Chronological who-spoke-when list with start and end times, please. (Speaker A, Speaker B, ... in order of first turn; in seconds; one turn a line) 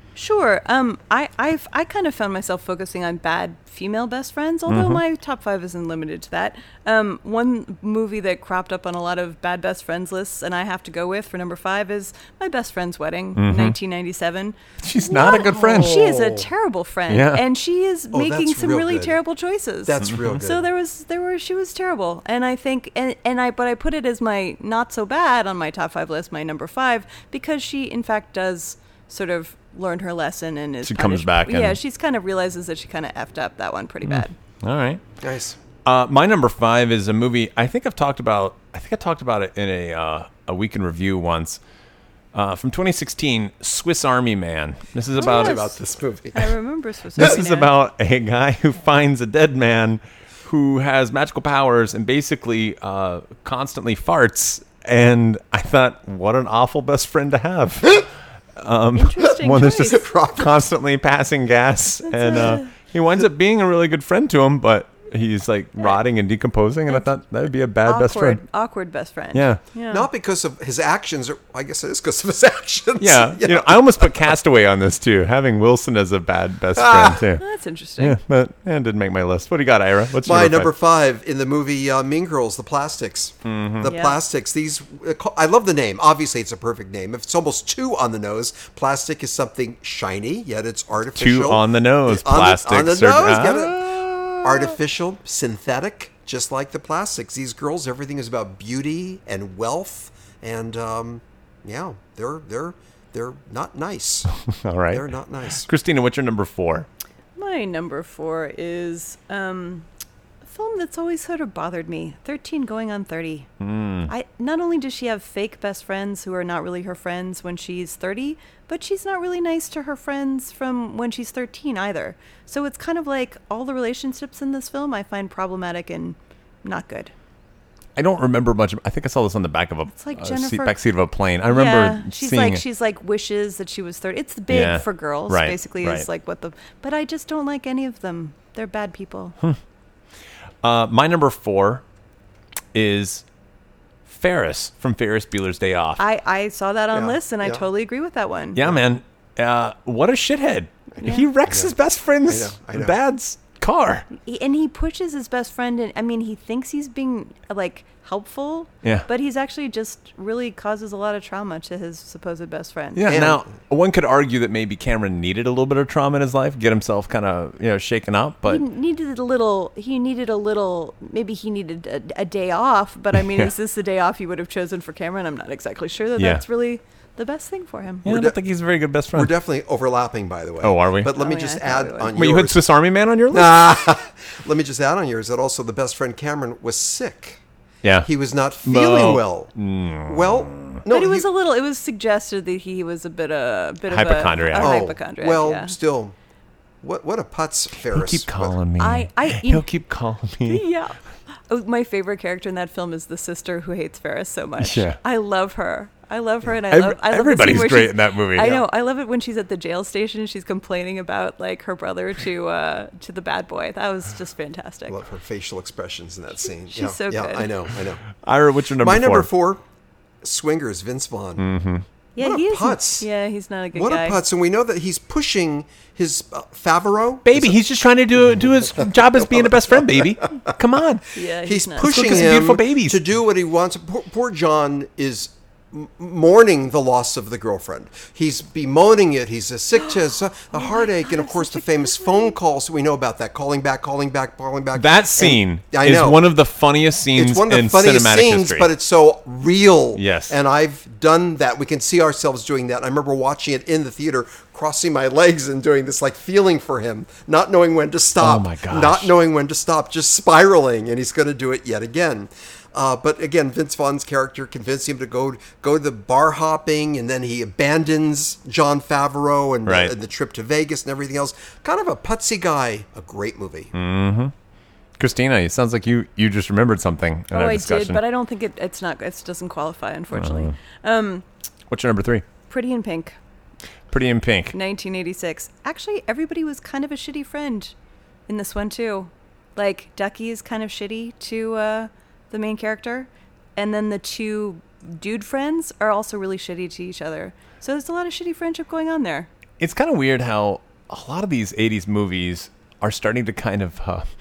Speaker A: 0.1-34.3
Speaker B: 4.7-5.0
Speaker B: 13.3-13.8
Speaker B: 14.8-16.0
Speaker C: 15.2-16.5
Speaker B: 17.1-17.4
Speaker C: 18.1-19.2
Speaker C: 19.8-20.7
Speaker B: 20.1-20.4
Speaker B: 30.8-31.8
Speaker B: 34.0-35.0
Speaker C: 35.2-35.6
Speaker B: 35.8-41.6
Speaker B: 42.3-45.8
Speaker C: 45.1-46.5
Speaker A: 45.2-45.7
Speaker A: 46.3-47.7
Speaker B: 47.1-68.4
Speaker A: 58.9-60.0
Speaker C: 59.9-60.5
Speaker A: 62.0-62.7
Speaker A: 67.8-70.1
Speaker B: 69.3-69.6
Speaker C: 69.9-74.3
Speaker B: 73.0-77.4
Speaker C: 76.8-77.2
Speaker A: 77.4-78.2
Speaker B: 78.0-80.7
Speaker C: 80.2-104.3
Speaker B: 83.4-83.9
Speaker A: 83.8-84.2
Speaker B: 91.1-94.7
Speaker B: 104.5-105.1
Speaker C: 104.9-105.7
Speaker B: 105.6-106.9
Speaker A: 107.3-109.9
Speaker A: 110.4-113.5
Speaker B: 113.6-114.1
Speaker A: 114.1-127.1
Speaker B: 128.0-132.6
Speaker A: 129.9-130.8
Speaker A: 131.5-139.3
Speaker B: 134.5-136.1
Speaker B: 140.6-141.8
Speaker B: 142.7-143.2
Speaker B: 144.1-146.0
Speaker A: 146.0-148.6
Speaker C: 146.9-147.6
Speaker B: 148.5-154.1
Speaker A: 151.0-151.2
Speaker C: 151.4-151.7
Speaker C: 152.3-152.9
Speaker A: 154.1-163.0
Speaker B: 162.9-168.6
Speaker C: 163.1-163.4
Speaker A: 168.4-178.1
Speaker B: 173.2-173.5
Speaker B: 176.2-176.4
Speaker C: 178.0-178.4
Speaker B: 178.0-179.3
Speaker C: 179.1-182.6
Speaker B: 180.6-181.1
Speaker A: 181.1-182.1
Speaker B: 182.1-183.6
Speaker C: 183.3-187.4
Speaker B: 187.8-188.1
Speaker C: 188.0-189.5
Speaker B: 188.6-190.8
Speaker C: 190.0-191.2
Speaker A: 190.9-195.7
Speaker B: 193.9-194.8
Speaker C: 194.6-196.1
Speaker C: 196.8-198.6
Speaker B: 197.9-200.6
Speaker A: 198.8-199.7
Speaker A: 200.4-215.0
Speaker B: 204.6-205.0
Speaker B: 206.7-208.6
Speaker C: 214.9-218.0
Speaker A: 216.7-217.5
Speaker B: 218.2-219.3
Speaker C: 218.8-219.6
Speaker C: 220.2-221.4
Speaker B: 221.4-221.8
Speaker A: 222.2-224.2
Speaker C: 222.2-223.1
Speaker C: 223.7-227.6
Speaker B: 227.2-231.1
Speaker C: 228.4-230.5
Speaker A: 231.1-232.2
Speaker C: 231.4-246.2
Speaker B: 231.8-233.0
Speaker A: 239.8-242.3
Speaker B: 244.7-248.7
Speaker C: 247.1-273.7
Speaker B: 249.9-250.4
Speaker B: 258.2-259.1
Speaker B: 269.6-269.9
Speaker B: 273.7-274.3
Speaker B: 275.0-278.0
Speaker A: 277.3-281.2
Speaker B: 280.1-280.5
Speaker B: 281.7-282.2
Speaker A: 282.5-283.1
Speaker B: 283.9-284.5
Speaker A: 284.5-287.7
Speaker A: 288.3-299.3
Speaker B: 299.6-304.1